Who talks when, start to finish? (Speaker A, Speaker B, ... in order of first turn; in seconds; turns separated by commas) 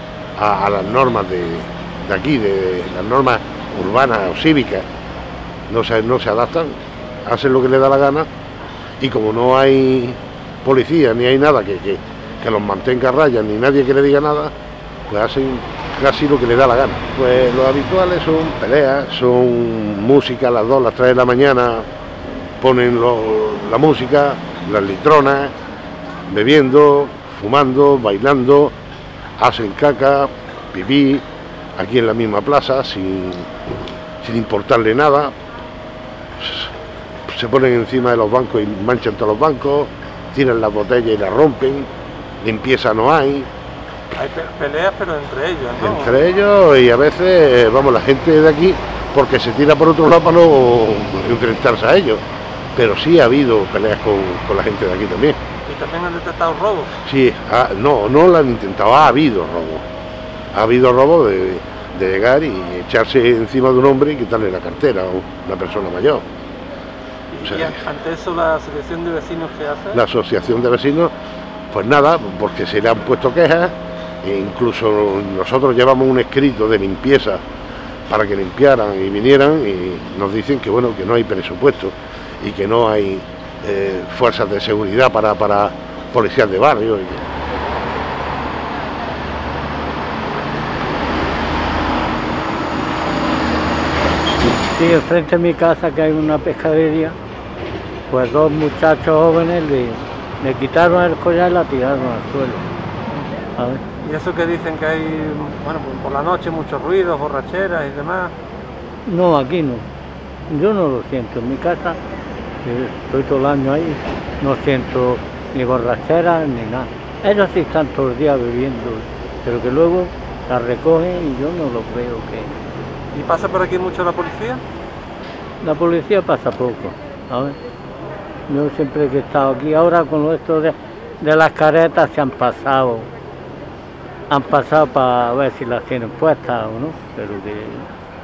Speaker A: 0.4-4.9, Speaker A: 5.7-8.3, Speaker A: 9.0-14.5, Speaker A: 15.1-21.9, Speaker A: 22.6-25.5, Speaker A: 26.3-28.7, Speaker A: 29.4-31.2, Speaker A: 31.8-33.5, Speaker A: 34.2-35.3, Speaker A: 36.4-36.7, Speaker A: 37.3-41.9, Speaker A: 42.4-43.5, Speaker B: 44.1-46.2, Speaker A: 45.8-52.2, Speaker A: 52.7-55.4, Speaker B: 55.6-56.9, Speaker A: 57.0-59.9, Speaker A: 60.5-66.2, Speaker B: 67.3-70.0, Speaker A: 67.4-67.8, Speaker A: 69.9-71.1, Speaker A: 71.7-77.4, Speaker A: 78.1-87.2, Speaker C: 94.5-97.2, Speaker C: 98.1-102.6, Speaker C: 103.6-103.8, Speaker B: 104.0-108.3, Speaker C: 109.1-109.8, Speaker C: 110.5-112.0, Speaker C: 112.6-122.5, Speaker B: 123.1-124.6, Speaker C: 125.6-127.6, Speaker C: 128.5-133.1, Speaker C: 134.3-137.9